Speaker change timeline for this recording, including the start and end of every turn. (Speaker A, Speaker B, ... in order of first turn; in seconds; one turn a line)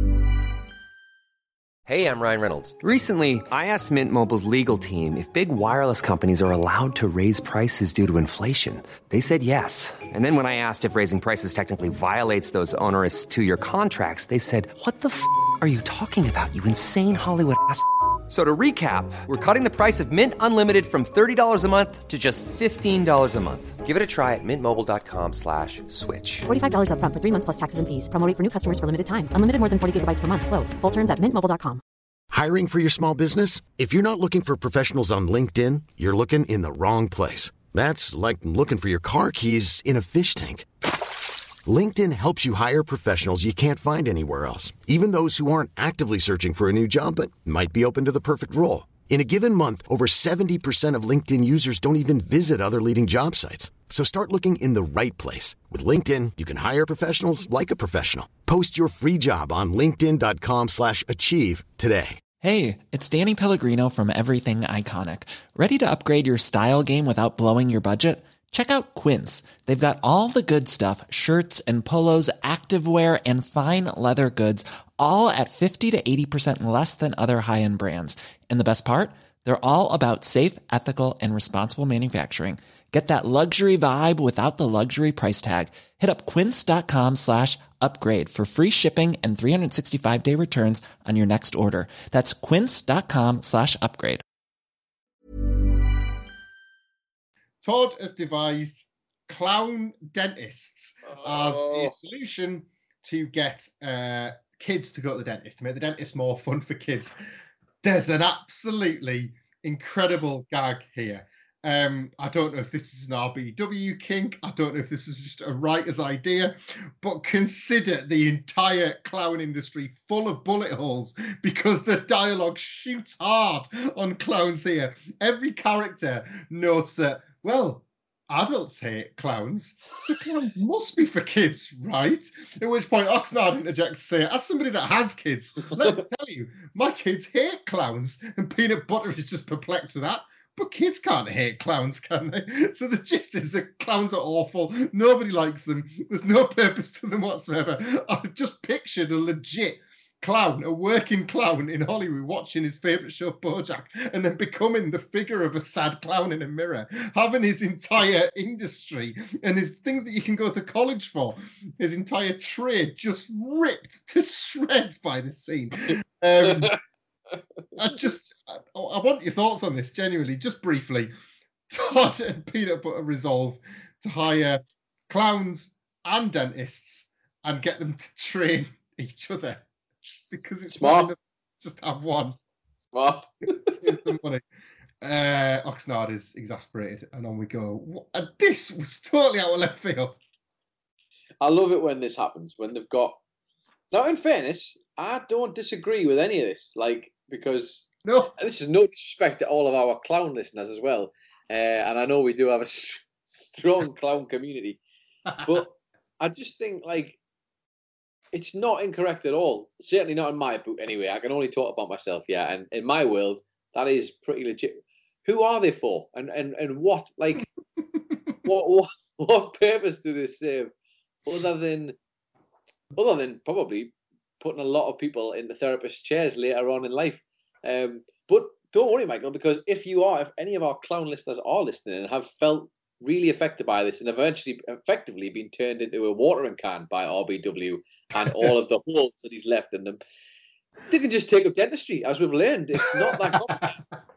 Speaker A: 1.9-26.4
Speaker B: 26.4-31.8
Speaker C: 32.3-40.7
Speaker C: 41.6-62.2
Speaker D: 62.4-94.2
Speaker E: 97.6-107.2
Speaker F: 101.0-101.9
Speaker E: 107.8-166.7
Speaker F: 166.4-166.7
Speaker E: 167.8-171.1
Speaker E: 171.7-179.7
Speaker E: 180.3-182.4
Speaker F: 180.7-181.1
Speaker F: 182.9-184.0
Speaker E: 183.7-184.4
Speaker E: 185.0-190.2
Speaker F: 191.4-193.2
Speaker F: 193.9-204.8
Speaker E: 198.0-198.3
Speaker F: 205.4-207.2
Speaker F: 208.3-217.5
Speaker F: 218.4-220.7
Speaker F: 221.2-221.9
Speaker F: 222.9-240.0
Speaker E: 238.2-238.5
Speaker F: 240.9-243.8
Speaker E: 243.3-243.6